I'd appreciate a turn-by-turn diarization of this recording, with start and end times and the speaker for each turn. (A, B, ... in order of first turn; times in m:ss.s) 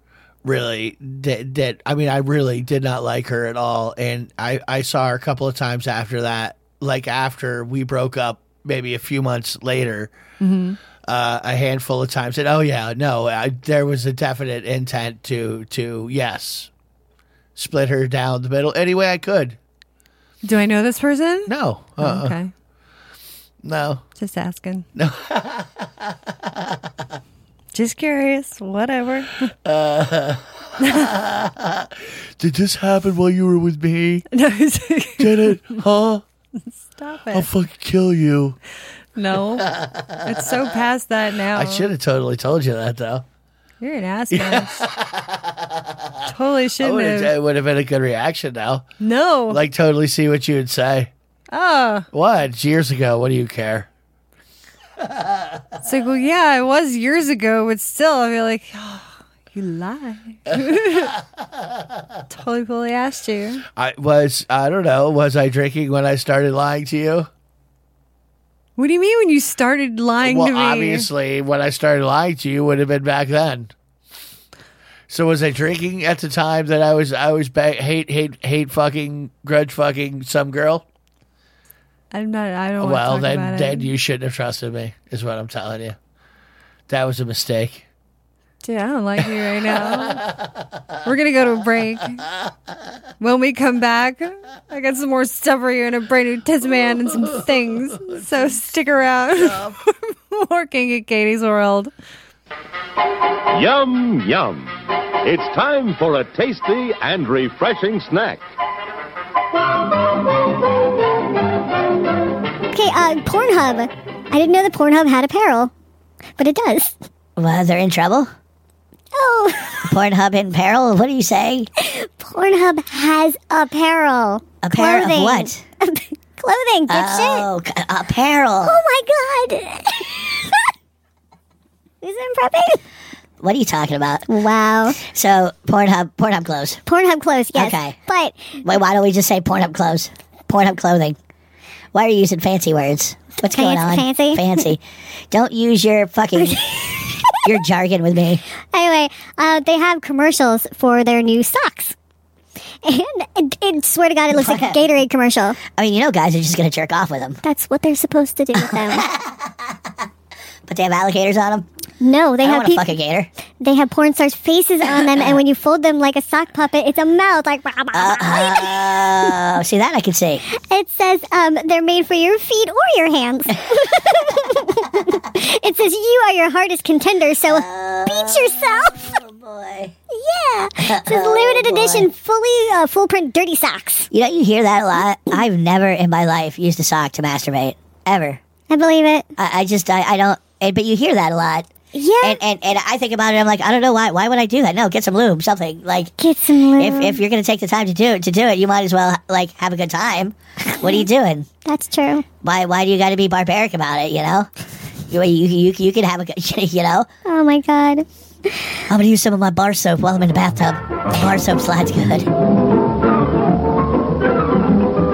0:00.4-0:10.1 A
0:10.4-0:10.8 B
0:11.0-0:16.7 A
0:17.6-0:19.6 A
0:20.4-0:22.5 B
0:21.5-0:22.4 A
0:23.6-0:24.0 A
0:24.2-0:24.9 B
0:25.0-0:26.8 A
0:27.7-0:29.5 B
0:29.6-0:34.2 A
0:30.8-0:31.1 B
0:34.3-0:35.8 B
0:35.2-0:36.2 A
0:36.8-0:37.5 B
0:37.3-0:38.6 A
0:39.2-0:39.7 B
0:39.4-0:40.7 A
0:40.2-0:41.9 B
0:41.5-0:43.2 A
0:43.8-0:44.9 B
0:44.3-0:46.2 A
0:46.2-0:47.3 B
0:46.8-0:48.9 A
0:49.0-0:49.6 B
0:49.5-0:51.1 A
0:51.5-0:52.1 B
0:52.1-0:53.9 A
0:55.8-1:01.2 B
1:00.5-1:01.0 A
1:02.3-1:03.6 B
1:03.8-1:07.3 A
1:08.8-1:11.1 B
1:10.2-1:13.7 A
1:15.1-1:20.8 A
1:22.1-1:23.9 B
1:22.8-1:26.0 A
1:26.9-1:27.9 A
1:28.6-1:30.2 B
1:29.4-1:30.5 A
1:31.0-1:32.2 B
1:33.2-1:41.9 B
1:38.0-1:38.2 A
1:39.4-1:39.8 A
1:43.5-1:48.4 C
1:52.7-1:55.7 D
1:56.4-1:57.0 D
1:57.4-1:58.3 E
1:59.1-1:59.9 D
1:59.9-2:01.7 E
2:01.8-2:07.5 D
2:04.6-2:05.6 E
2:06.9-2:08.8 E
2:08.6-2:10.3 D
2:12.0-2:12.8 D
2:13.4-2:14.2 E
2:14.3-2:15.0 D
2:15.0-2:16.8 E
2:16.9-2:18.6 D
2:17.5-2:18.0 E
2:18.6-2:21.2 E
2:21.9-2:26.8 E
2:23.3-2:24.7 D
2:26.4-2:27.6 D
2:27.5-2:28.4 E
2:28.7-2:32.0 D
2:32.8-2:35.6 D
2:34.3-2:34.9 E
2:35.6-2:37.4 E
2:37.4-2:39.0 D
2:38.6-2:39.4 E
2:40.7-2:41.7 E
2:42.0-2:43.0 D
2:42.4-2:43.3 E
2:43.6-2:49.4 D
2:44.9-2:45.4 E
2:47.9-2:50.4 E
2:50.5-2:59.2 D
2:57.5-2:59.9 E
3:00.1-3:04.1 D
3:00.8-3:02.1 E
3:04.1-3:08.4 E
3:08.7-3:09.3 D
3:09.4-3:11.7 E
3:11.9-3:12.4 D
3:12.2-3:16.1 E
3:16.2-3:17.2 D
3:16.8-3:21.5 E
3:21.6-3:22.3 D
3:22.4-3:24.5 E
3:25.1-3:27.1 E
3:27.2-3:28.1 D
3:28.9-3:32.3 E